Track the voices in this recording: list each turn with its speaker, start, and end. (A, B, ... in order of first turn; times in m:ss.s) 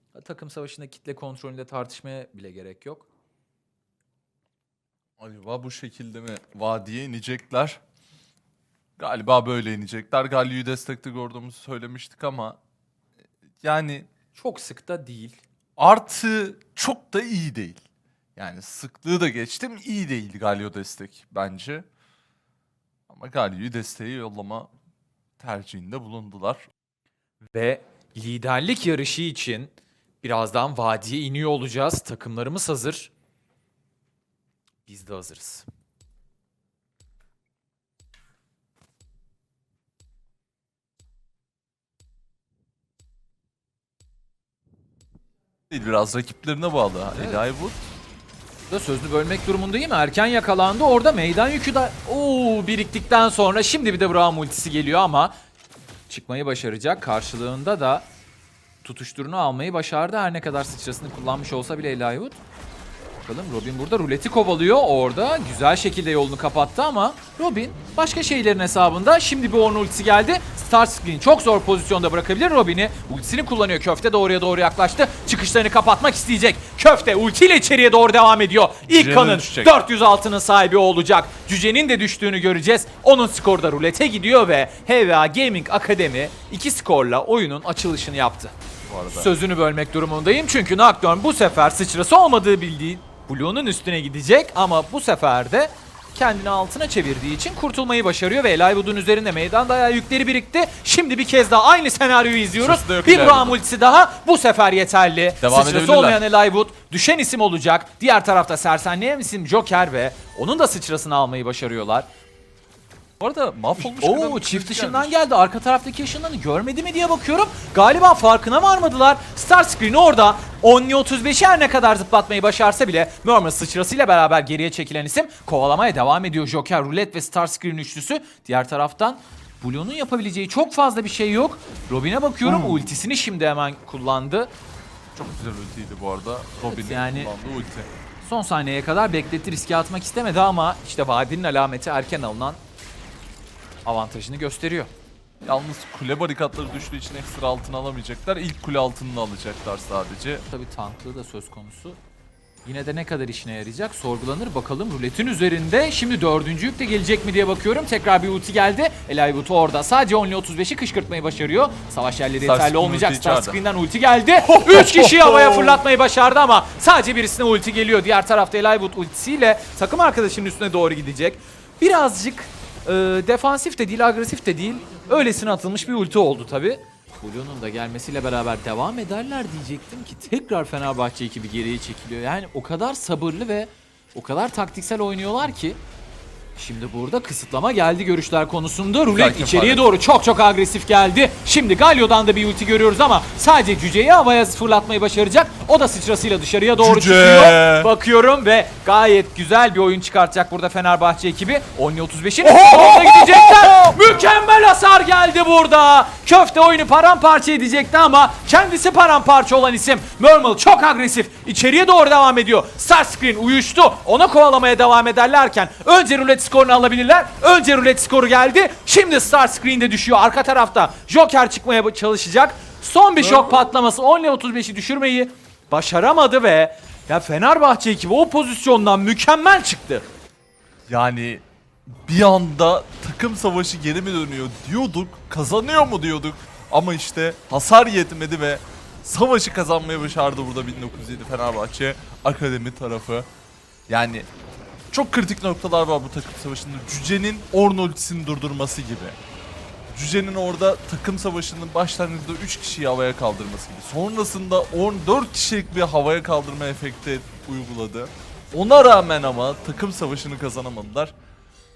0:00.1-0:03.1 A
0:05.2-0:07.8 B
0:09.0-0:12.6 B
0:13.6-0:14.1 B
0:14.3-0:15.4 A
0:15.8-0:17.8 B
0:18.4-0:21.8 B
0:23.1-0:24.7 B
0:25.4-0:26.6 B
0:27.5-0:33.1 A
0:34.9-0:35.7 A
0:45.7-0:47.8 B
0:47.2-0:47.4 A
0:48.7-0:55.3 A
0:56.1-0:58.1 A
0:58.8-1:02.4 A
1:03.3-1:28.6 A
1:18.9-1:19.8 B
1:28.8-1:29.3 B
1:29.1-1:52.1 A
1:42.6-1:43.6 B
1:45.4-1:46.2 B
1:53.2-1:55.2 B
1:53.8-2:14.5 A
2:12.4-2:12.9 B
2:15.2-2:17.9 B
2:16.7-2:17.3 A
2:18.2-2:22.6 A
2:23.8-2:24.9 A
2:25.5-2:30.5 B
2:30.5-2:32.0 A
2:32.6-3:05.8 A
2:42.4-2:43.6 B
2:44.4-2:45.8 B
3:06.6-3:50.0 A
3:09.1-3:09.8 B
3:16.8-3:17.9 B
3:43.2-3:43.7 B
3:50.9-3:51.4 B
3:52.0-4:03.3 B
4:03.9-4:04.3 B
4:04.9-4:09.2 B
4:09.9-4:21.1 B